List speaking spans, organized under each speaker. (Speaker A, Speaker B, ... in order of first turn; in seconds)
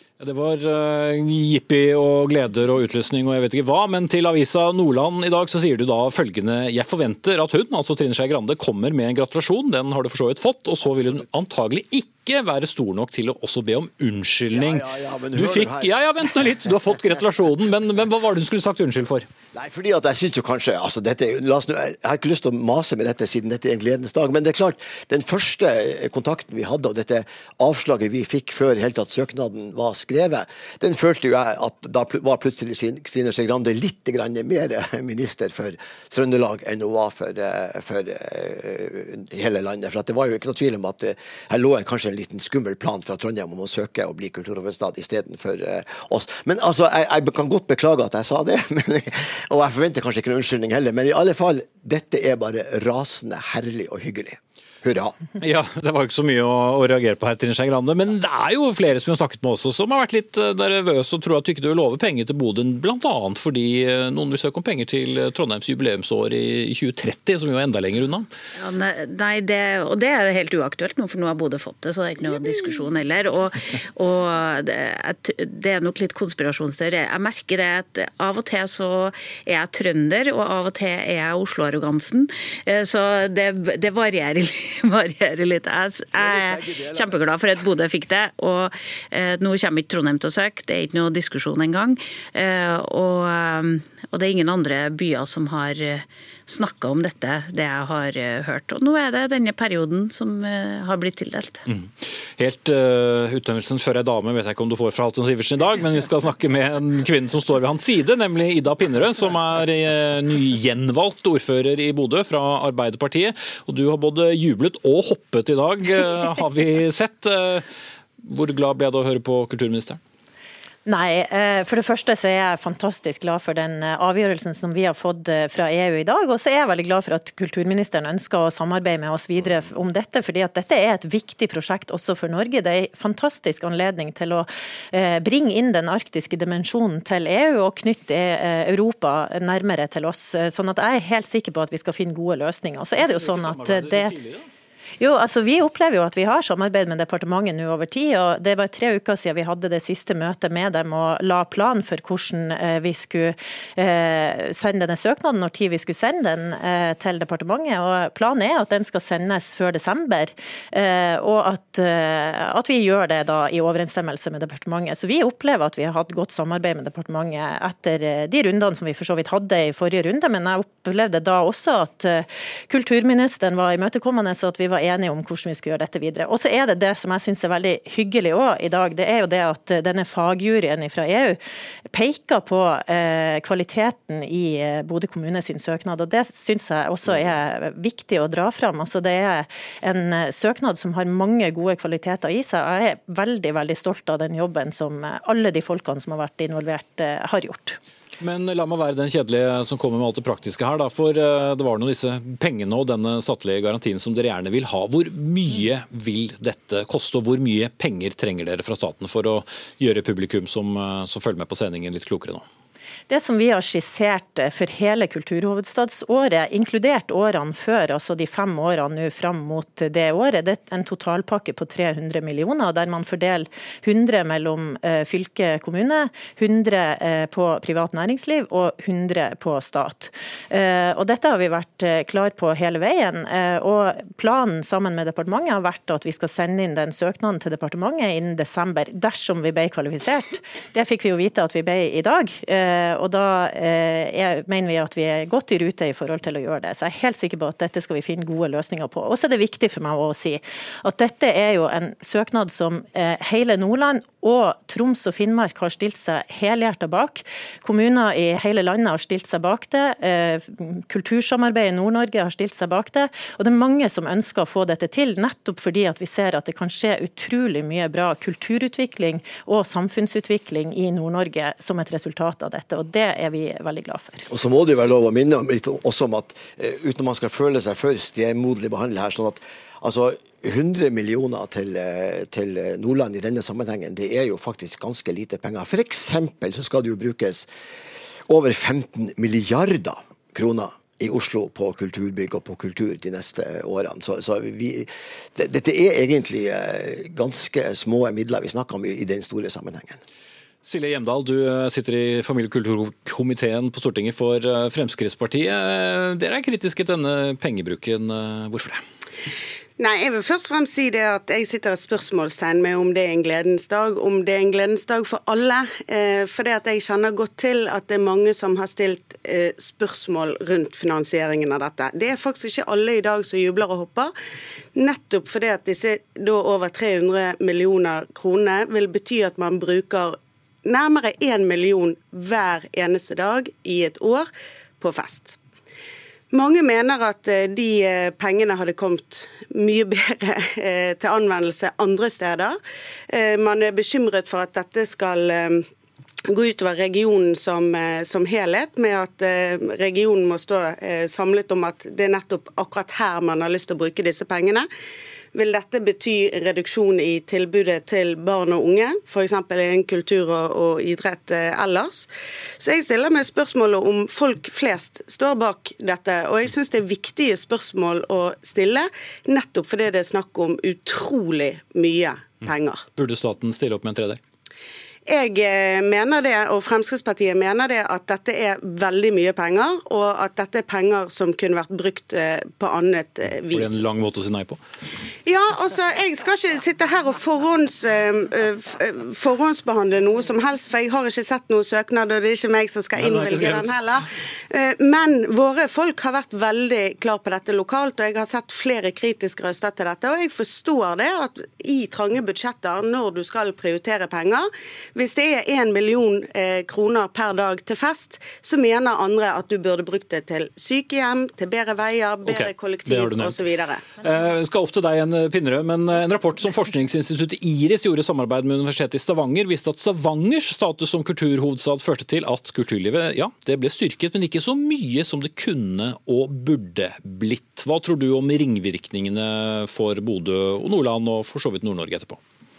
Speaker A: 0.2-19.2, 55.4-68.3, 101.7-117.7, 118.2-120.0, 143.0-144.4, 198.2-212.4, 300.6-308.8, 372.9-374.2, 383.5-384.6, 393.0-393.8, 412.2-413.4, 414.0-432.2
Speaker B: 14.5-16.6, 19.5-55.2, 86.1-87.2, 274.3-287.5, 288.3-300.0
Speaker C: 68.6-101.7
Speaker D: 120.8-144.1, 145.0-197.8, 213.1-274.2
Speaker E: 309.8-324.1, 324.7-335.4, 336.3-342.6, 343.1-345.7, 346.3-354.7, 355.3-372.8, 375.1-383.7, 385.2-413.8